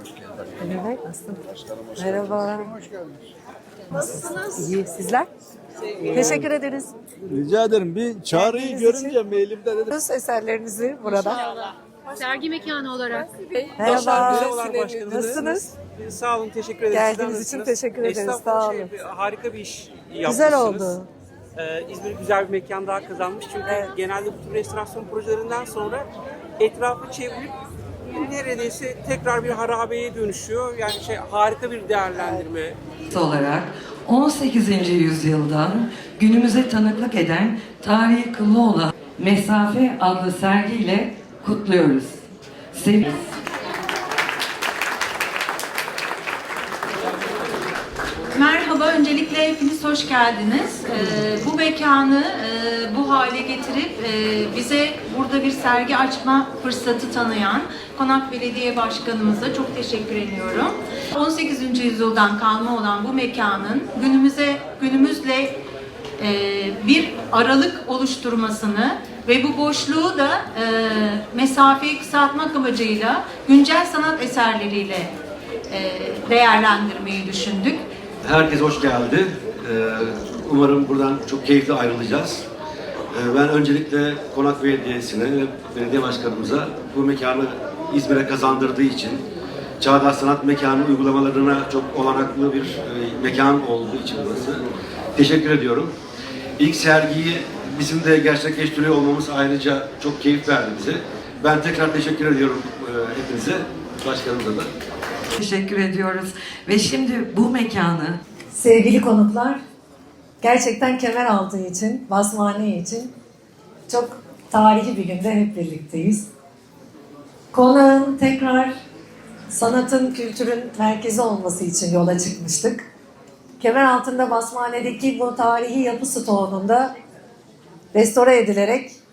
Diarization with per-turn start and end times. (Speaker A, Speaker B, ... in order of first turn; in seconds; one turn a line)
Speaker A: 0.6-1.4
Speaker A: 2.0-2.8
Speaker A: 4.0-5.3
Speaker B: 4.3-4.8
Speaker A: 6.1-7.0
Speaker C: 7.3-9.9
Speaker A: 8.3-9.2
Speaker A: 9.9-11.5
Speaker B: 12.2-15.6
Speaker A: 13.8-15.7
Speaker D: 13.8-20.9
Speaker A: 16.9-19.0
Speaker A: 20.2-21.1
Speaker D: 21.6-26.1
Speaker A: 23.7-23.9
Speaker D: 26.6-27.6
Speaker D: 28.1-32.8
Speaker A: 32.2-32.5
Speaker E: 33.1-43.3
Speaker F: 48.4-65.6
Speaker F: 66.2-75.1
Speaker F: 75.7-77.8
Speaker G: 78.2-82.5
Speaker G: 83.1-89.2
Speaker G: 89.8-96.0
Speaker G: 96.6-104.7
Speaker E: 105.4-108.2
Speaker A: 108.5-109.6
Speaker A: 110.4-113.1
Speaker A: 113.9-116.3
Speaker A: 117.5-118.8
Speaker A: 119.5-122.9
Speaker A: 123.6-126.9
Speaker A: 127.9-129.0